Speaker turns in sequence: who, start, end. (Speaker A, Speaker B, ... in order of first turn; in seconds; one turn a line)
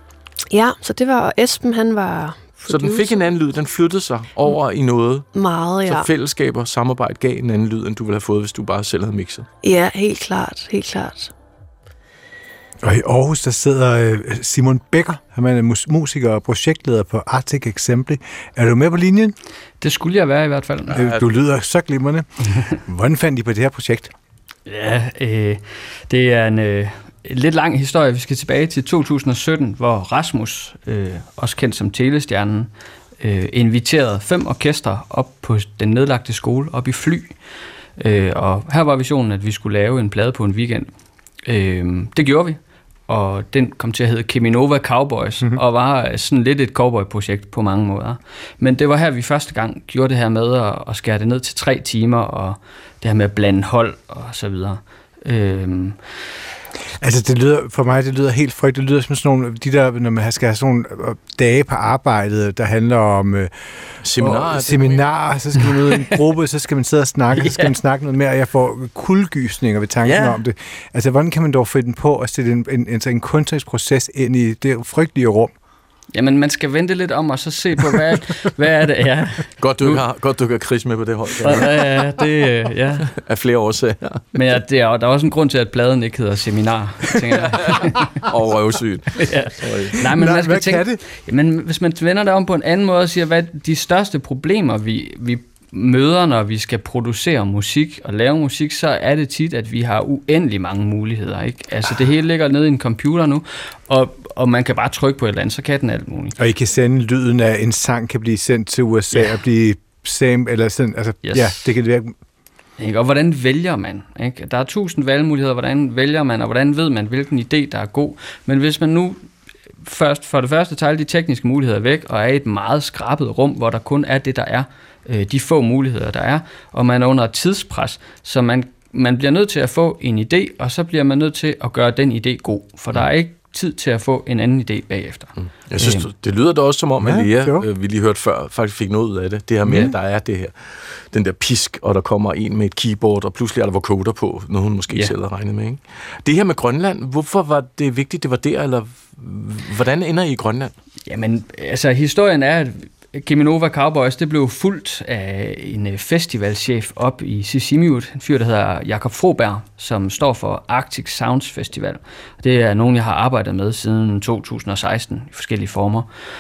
Speaker A: 0.5-3.2
Speaker B: 2.7-5.3
Speaker A: 5.3-6.1
Speaker B: 5.9-9.5
Speaker A: 9.6-11.3
Speaker C: 12.8-19.4
Speaker D: 19.8-21.0
Speaker C: 20.9-24.1
Speaker D: 24.7-37.4
Speaker D: 38.0-40.9
Speaker D: 41.5-56.0
Speaker C: 57.0-63.5
Speaker B: 64.0-65.0
Speaker C: 64.2-75.5
Speaker D: 67.4-67.7
Speaker D: 70.0-70.4
Speaker D: 76.1-80.0
Speaker B: 79.6-81.7
Speaker D: 81.4-83.1
Speaker B: 83.1-84.2
Speaker D: 84.3-88.2
Speaker B: 87.6-90.0
Speaker D: 89.2-106.4
Speaker C: 90.1-91.0
Speaker C: 106.4-112.1
Speaker D: 111.2-111.7
Speaker D: 112.8-119.3
Speaker D: 119.8-136.1
Speaker B: 135.4-150.7
Speaker C: 137.0-137.7
Speaker D: 151.1-166.1